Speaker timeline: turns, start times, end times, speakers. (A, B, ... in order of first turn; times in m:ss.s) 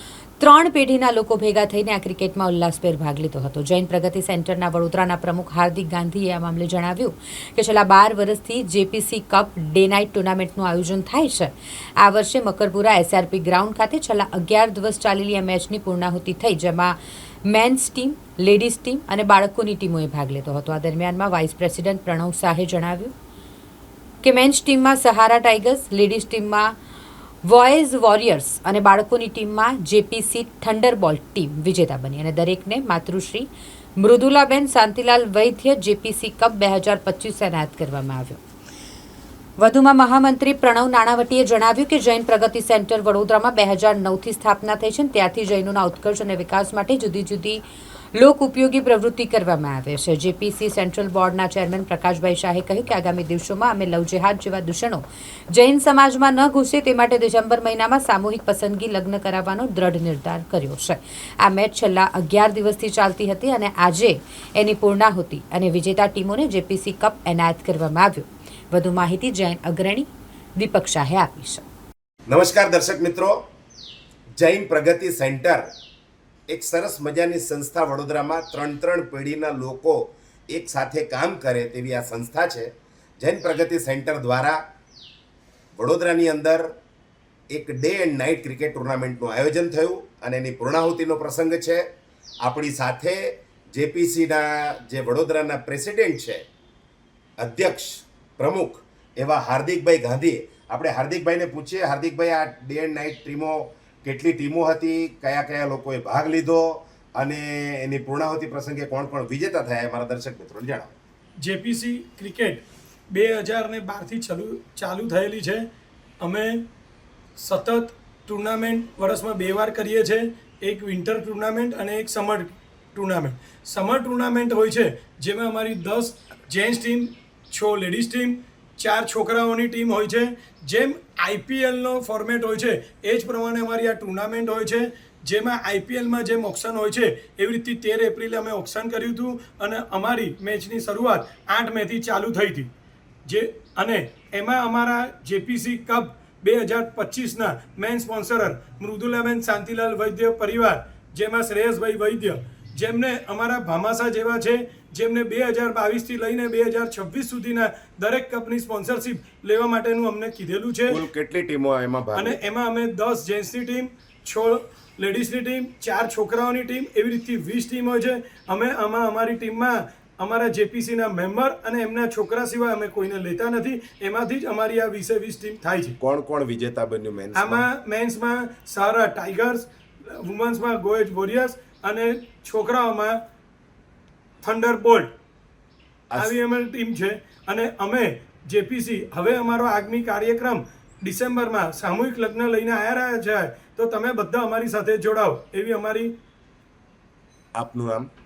0:00.4-0:23.1 A
0:24.2-0:26.7 A
0:27.4-0:38.4 A
0:39.6-0:47.6 A
0:48.2-1:11.6 A
1:12.3-1:13.4 B
1:14.4-1:15.7 B
1:16.5-1:24.6 B
1:25.8-1:26.7 B
1:27.5-1:31.9 B
1:32.4-1:36.4 B
1:37.4-1:50.9 B
1:51.4-1:55.7 C
1:56.2-1:56.7 C
1:57.4-2:22.7 C
2:23.2-2:41.0 C
2:40.9-2:42.4 B
2:42.2-2:56.0 C
2:56.0-2:57.6 B
2:57.3-3:03.2 C
3:04.4-3:05.1 C
3:06.1-3:06.4 B
3:06.2-3:16.1 C
3:17.5-3:18.1 B